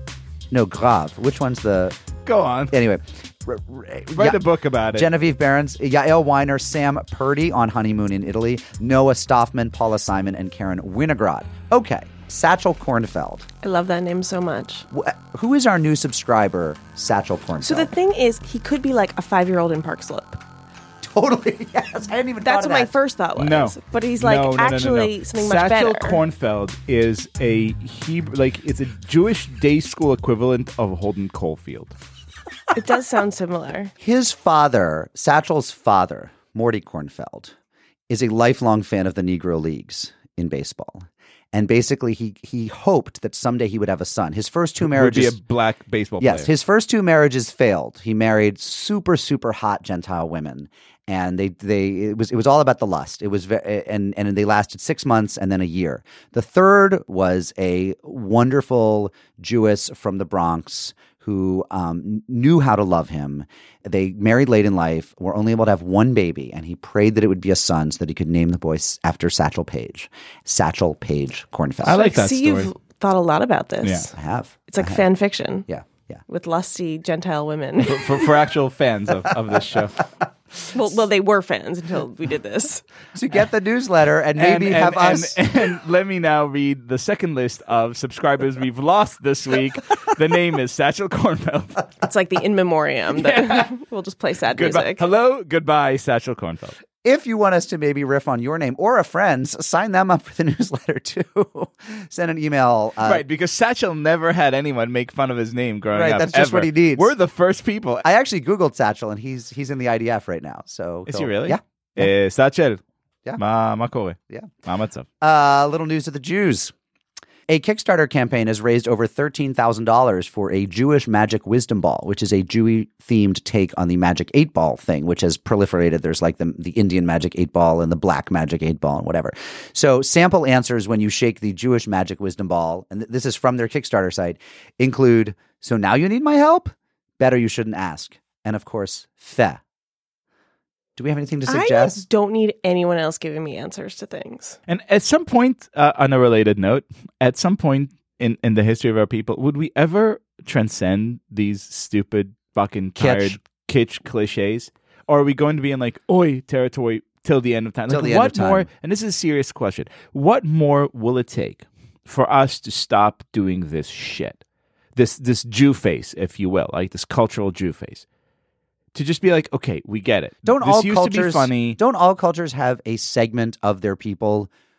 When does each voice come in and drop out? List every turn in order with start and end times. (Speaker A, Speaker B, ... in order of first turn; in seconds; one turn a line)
Speaker A: 0.5-2.0
Speaker B: 2.2-2.8
Speaker A: 2.7-4.4
Speaker B: 4.2-5.1
Speaker A: 4.9-13.5
Speaker C: 13.6-14.8
Speaker A: 14.9-17.9
Speaker C: 17.6-20.4
Speaker A: 21.0-22.9
Speaker C: 22.4-26.2
Speaker B: 23.4-31.9
Speaker C: 32.7-33.9
Speaker A: 34.0-37.5
Speaker A: 38.1-45.4
Speaker B: 44.8-46.5
Speaker A: 46.2-72.0
Speaker B: 71.8-72.7
Speaker C: 71.9-75.7
Speaker B: 73.8-74.1
Speaker A: 74.2-75.0
Speaker A: 75.7-76.2
Speaker C: 76.3-78.3
Speaker B: 77.8-80.1
Speaker C: 80.7-82.8
Speaker A: 83.1-85.4
Speaker B: 84.4-91.9
Speaker C: 92.0-95.1
Speaker B: 93.1-93.7
Speaker B: 94.5-96.8
Speaker A: 97.0-103.2
Speaker B: 103.0-108.0
Speaker A: 105.9-107.1
Speaker A: 108.0-112.1
Speaker B: 111.1-112.8
Speaker B: 113.4-115.1
Speaker A: 115.2-116.7
Speaker A: 117.5-139.6
Speaker A: 141.0-142.0
Speaker C: 141.5-144.6
Speaker B: 144.7-168.1
Speaker A: 153.0-153.4
Speaker A: 157.9-158.7
Speaker B: 168.9-171.8
Speaker A: 170.4-174.5